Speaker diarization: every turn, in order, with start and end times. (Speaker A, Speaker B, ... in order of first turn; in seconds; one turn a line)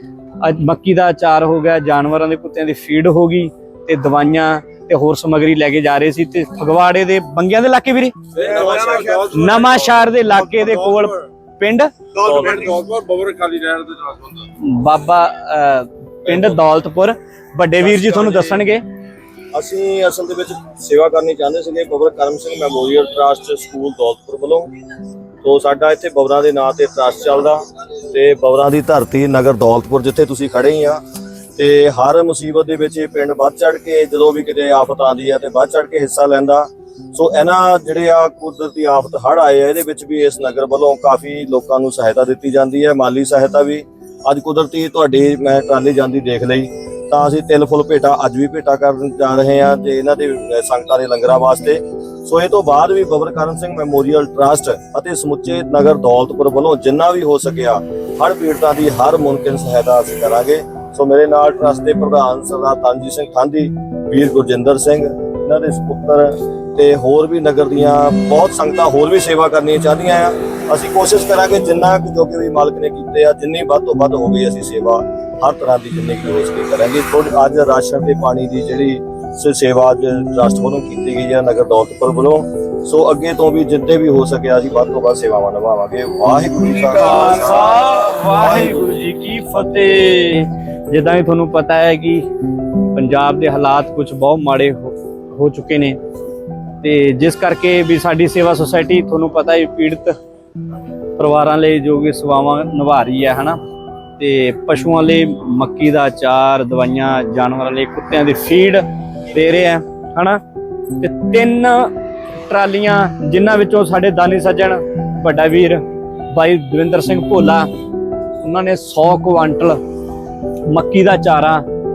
Speaker A: 0.4-8.3
Speaker B: 8.3-9.7
Speaker C: 8.4-9.3
Speaker A: 9.3-11.9
Speaker C: 12.2-12.8
Speaker B: 12.2-14.4
Speaker A: 14.6-18.8
Speaker C: 16.3-16.5
Speaker C: 17.9-18.6
Speaker C: 19.5-24.7
Speaker C: 25.4-31.0
Speaker C: 31.6-88.8
Speaker A: 86.9-92.3
Speaker A: 92.9-96.0
Speaker A: 96.8-100.2
Speaker A: 101.2-103.6
Speaker A: 104.2-110.4
Speaker A: 110.9-111.9
Speaker A: 112.4-117.7
Speaker A: 118.4-119.8
Speaker A: 120.7-121.6